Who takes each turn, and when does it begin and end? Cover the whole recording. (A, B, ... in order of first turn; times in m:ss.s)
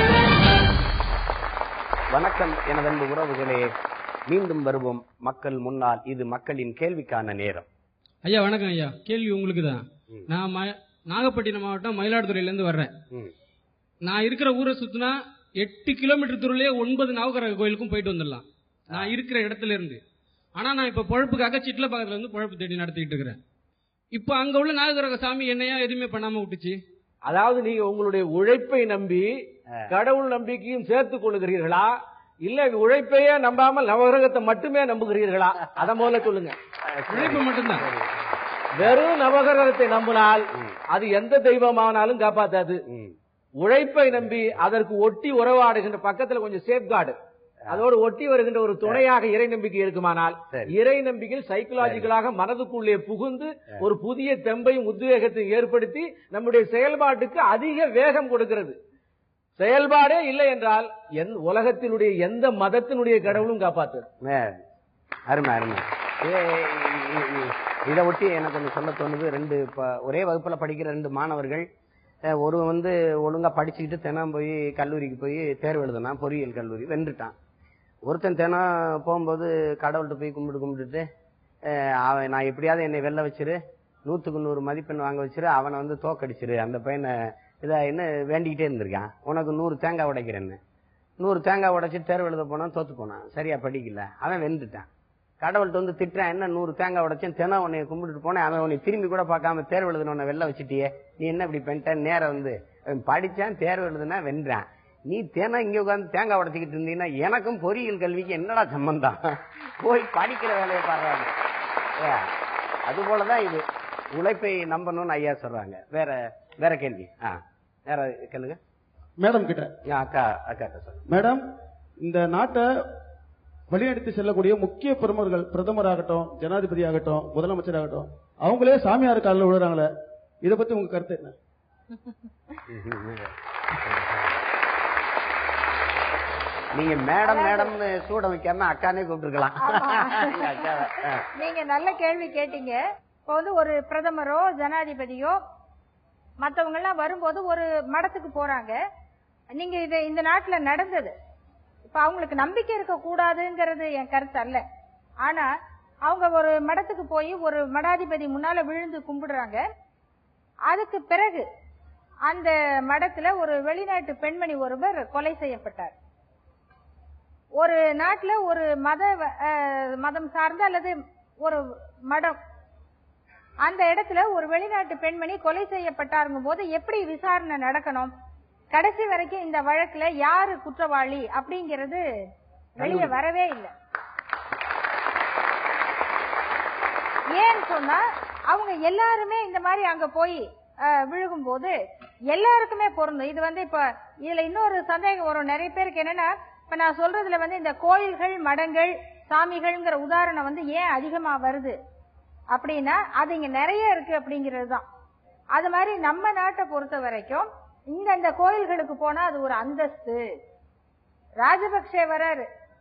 0:02.1-0:03.7 A
0:04.3-0:07.7 A
0:08.2-0:12.9 B
0:14.0-0:20.0 B
0:20.6-0:23.4 B
0:24.1-0:26.8 B
0:27.3-0:29.3 C
0:29.9-0:31.9 C
0:32.4-0:36.5 C
0:36.8-0:38.2 A
0:37.1-0:37.8 B
0:38.8-0:42.8 C
0:42.9-0:43.1 A
0:43.6-0:47.2 C
0:47.7-0:58.8 C
0:51.8-0:52.1 A
0:59.6-1:04.0 C
1:04.2-1:04.6 A
1:05.3-1:11.7 A
1:12.3-1:17.3 A
1:18.0-1:21.0 A
1:21.6-1:30.6 A
1:31.2-1:34.9 A
1:35.4-1:51.3 A
1:52.0-1:52.3 A
1:52.8-1:58.6 A
1:59.2-1:59.7 D
1:59.8-2:01.0 A
2:01.1-2:01.4 D
2:02.0-2:02.6 D
2:03.7-2:09.9 D
2:10.4-2:11.4 D
2:12.7-2:13.3 A
2:13.8-2:14.1 A
2:16.7-2:21.3 A
2:17.2-2:17.7 E
2:19.7-2:20.7 E
2:21.4-2:25.4 E
2:26.4-2:28.7 E
2:29.5-2:31.1 E
2:31.9-2:34.6 E
2:35.2-2:35.5 E
2:36.0-2:39.6 E
2:40.7-2:41.4 E
2:42.3-2:45.9 E
2:47.6-2:50.9 E
2:51.4-2:52.4 E
2:53.6-2:58.1 E
2:58.7-3:02.0 E
3:02.8-3:03.7 E
3:02.8-3:03.1 A
3:07.3-3:11.8 E
3:12.3-3:21.8 E
3:22.5-3:24.8 E
3:25.5-3:30.2 E
3:31.4-3:32.5 E